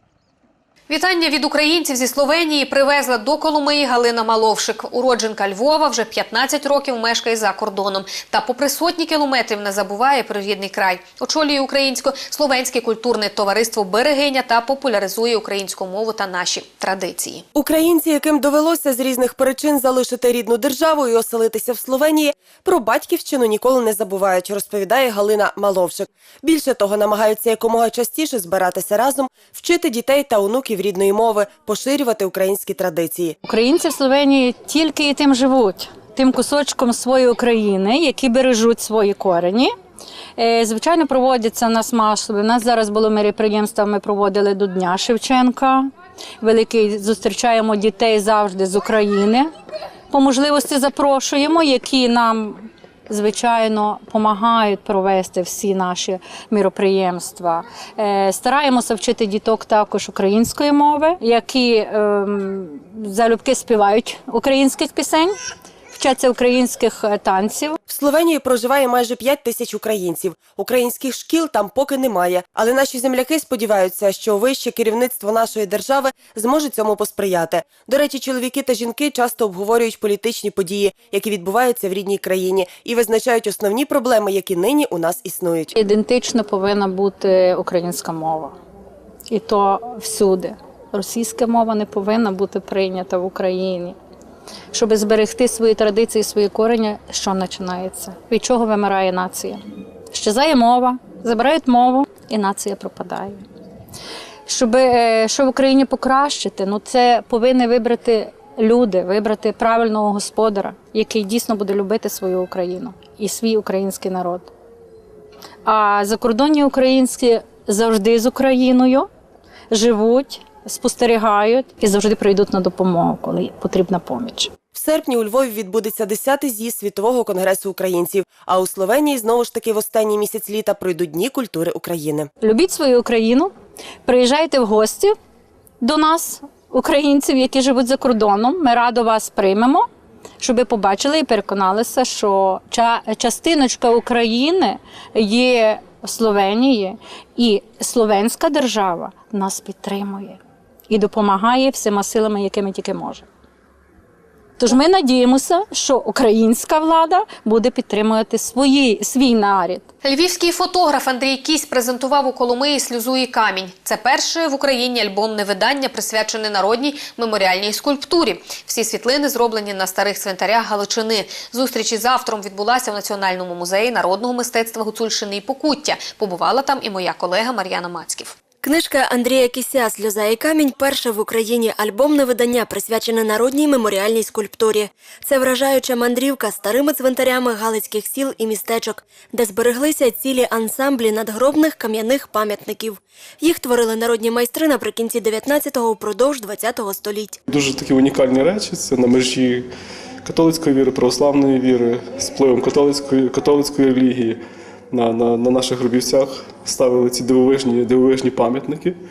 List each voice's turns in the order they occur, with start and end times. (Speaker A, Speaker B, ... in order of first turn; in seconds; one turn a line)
Speaker A: 0.9-17.4
Speaker B: 17.6-33.4
Speaker C: 33.4-39.8
Speaker C: 40.4-49.5
Speaker C: 50.1-65.4
Speaker C: 65.9-67.8
Speaker B: 67.9-85.7
Speaker C: 85.7-88.6
Speaker C: 89.3-94.0
Speaker C: 94.7-103.4
Speaker C: 104.5-114.5
Speaker C: 115.7-119.1
Speaker C: 119.7-124.5
Speaker B: 124.7-132.3
Speaker C: 132.4-133.5
Speaker C: 134.1-135.2
Speaker C: 135.8-139.9
Speaker C: 140.4-153.3
Speaker C: 154.6-159.9
Speaker A: 160.0-178.4
Speaker D: 178.6-197.4
Speaker E: 197.5-199.7
Speaker E: 200.2-204.4
Speaker E: 204.9-209.0